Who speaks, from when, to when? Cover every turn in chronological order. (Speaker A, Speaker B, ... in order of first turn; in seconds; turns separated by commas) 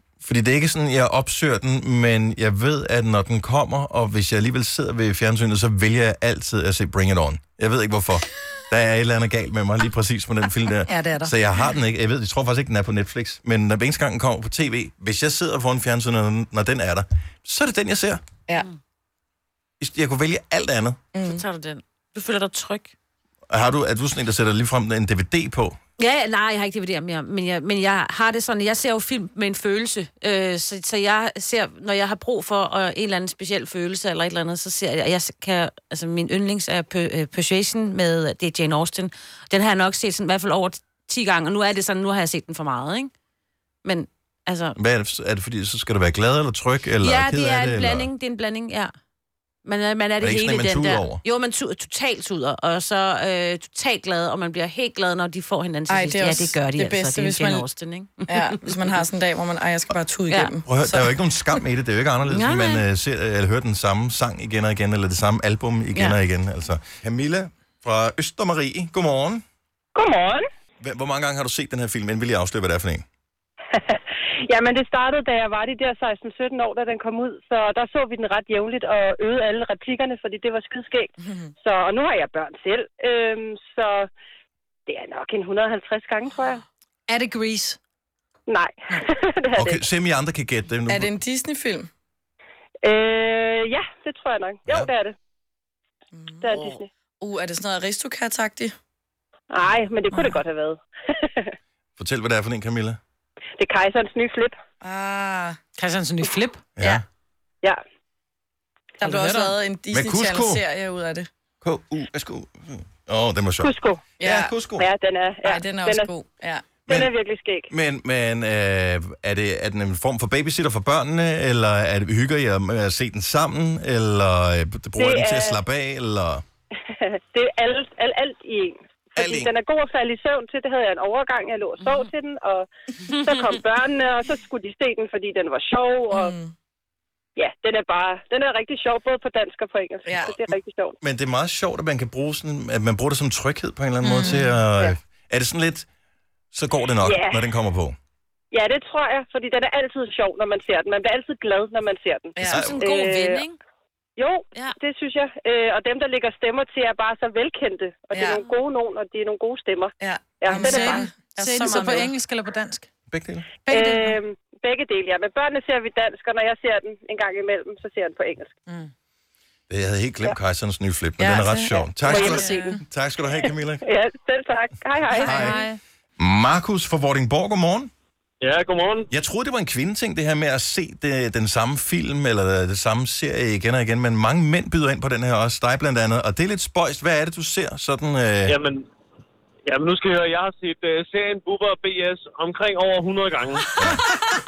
Speaker A: 0.2-18.2, Speaker B: 10.9-11.3, Speaker A: 19.8-21.0, Speaker C: 21.1-21.4, Speaker D: 21.2-22.9, Speaker A: 23.5-25.8, Speaker D: 26.0-43.1, Speaker D: 43.8-44.8, Speaker A: 44.8-48.1, Speaker D: 47.0-48.9, Speaker D: 49.6-58.9, Speaker A: 50.2-51.2, Speaker C: 55.9-57.7, Speaker C: 58.3-61.2, Speaker D: 60.3-60.5, Speaker A: 60.7-69.4, Speaker D: 62.3-62.8, Speaker E: 70.0-70.5, Speaker A: 70.8-73.0, Speaker E: 73.7-84.1, Speaker C: 81.2-81.5, Speaker E: 84.9-86.6, Speaker B: 87.1-87.8, Speaker E: 88.5-89.8, Speaker A: 89.6-91.1, Speaker C: 90.9-91.9, Speaker E: 92.8-95.2, Speaker C: 96.2-98.8, Speaker E: 96.4-96.9, Speaker E: 99.5-101.5, Speaker C: 100.1-100.5, Speaker A: 102.0-103.0, Speaker E: 103.6-104.6, Speaker C: 104.8-105.6, Speaker B: 105.8-106.7, Speaker A: 106.8-107.0, Speaker C: 109.0-111.3, Speaker B: 109.0-109.5, Speaker A: 109.9-110.6, Speaker A: 111.6-114.9, Speaker E: 113.6-114.1, Speaker C: 114.2-114.5, Speaker E: 114.7-116.1, Speaker C: 115.4-116.9, Speaker A: 116.9-117.1, Speaker E: 116.9-117.7, Speaker A: 117.7-126.4, Speaker E: 125.0-125.6, Speaker E: 126.9-136.3, Speaker A: 129.2-129.5, Speaker D: 131.8-132.1, Speaker D: 133.0-133.6, Speaker C: 136.1-136.5, Speaker E: 137.4-141.0, Speaker C: 140.1-140.4, Speaker A: 141.0-145.9, Speaker B: 144.0-144.6, Speaker A: 146.5-148.0, Speaker E: 147.0-147.5, Speaker E: 148.5-153.4, Speaker C: 152.4-152.7, Speaker D: 152.4-153.6, Speaker A: 152.5-152.8, Speaker E: 154.2-161.1, Speaker C: 158.1-158.4, Speaker C: 160.0-162.1, Speaker B: 160.6-162.9, Speaker A: 163.1-163.5, Speaker B: 163.6-164.2, Speaker E: 163.7-168.6, Speaker A: 169.7-173.8, Speaker C: 171.2-172.7, Speaker B: 172.1-172.8, Speaker E: 172.1-172.7, Speaker E: 173.4-175.6, Speaker B: 175.2-175.8, Speaker A: 175.2-175.6, Speaker A: 176.2-177.9, Speaker F: 178.4-179.1, Speaker A: 179.1-188.6, Speaker F: 188.5-188.9, Speaker F: 189.7-193.8, Speaker A: 193.8-194.2